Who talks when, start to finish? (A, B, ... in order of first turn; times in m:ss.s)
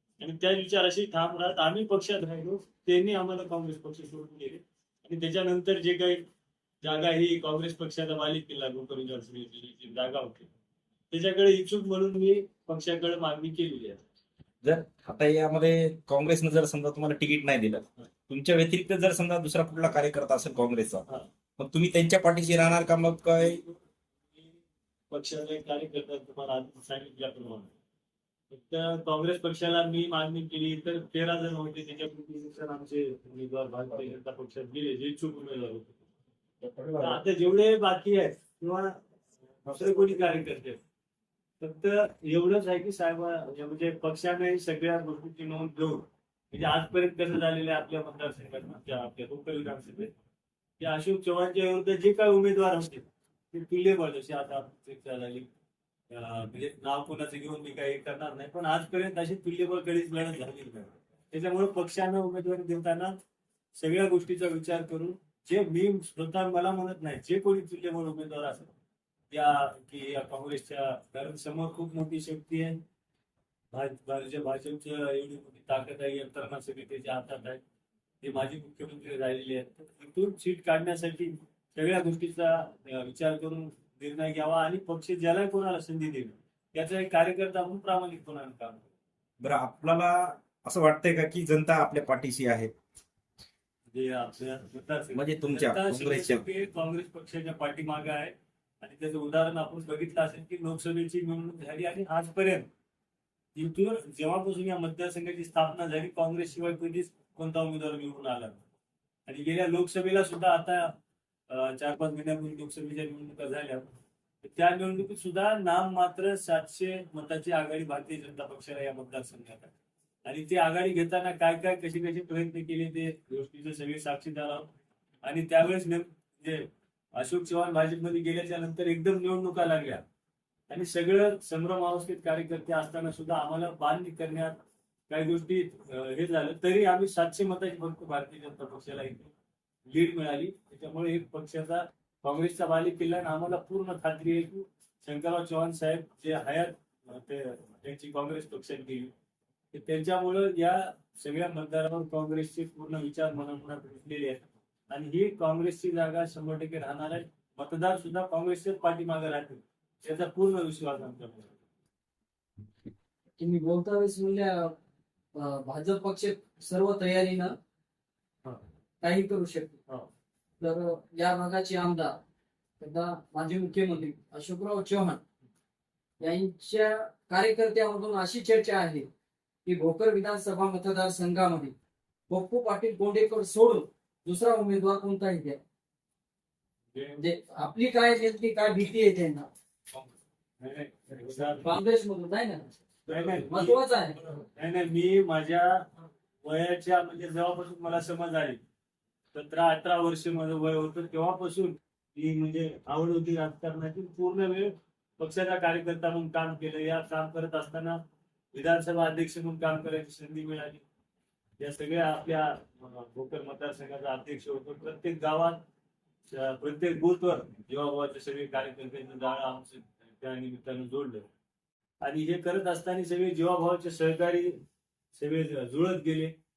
0:00.2-0:06.2 A
0:06.8-0:10.5 A
0:11.1-0:14.0 A
0:14.6-0:21.0 B
0:21.6-0:23.6 B
0:25.1-0:27.7 A
0:28.5-0:36.0 A
0:36.6-0:37.1 B
0:37.0-0:39.0 A
0:39.7-0:40.8 A
0:41.6-0:50.1 A
0:50.8-0:55.5 A
0:56.1-1:03.2 A
1:03.8-1:08.7 A
1:09.3-1:12.8 A
1:13.7-1:17.6 A
1:18.2-1:28.8 A
1:29.4-1:32.7 B
1:33.9-1:42.6 A
1:35.1-1:36.4 B
1:43.5-1:48.6 A
1:49.2-1:50.9 A
1:51.5-1:53.9 A
1:54.4-1:59.7 A
2:00.2-2:04.7 A
2:05.2-2:10.0 A
2:10.7-2:14.6 A
2:15.1-2:19.3 A
2:19.9-2:29.1 A
2:29.7-2:41.5 A
2:43.4-2:44.7 C
2:45.3-2:47.5 C
2:49.0-2:49.8 C
2:50.6-2:52.2 C
2:52.8-2:55.2 C
2:56.2-2:59.1 C
2:59.6-3:01.7 C
3:02.3-3:05.6 C
3:06.9-3:07.2 A
3:07.2-3:09.5 C
3:10.6-3:11.8 A
3:11.6-3:14.2 C
3:13.1-3:13.8 A
3:14.3-3:15.9 A
3:16.4-3:18.6 A
3:19.3-3:28.0 A
3:28.5-3:30.8 A
3:31.6-3:35.6 A
3:36.3-3:41.2 A
3:42.0-3:44.6 A
3:45.1-3:46.3 A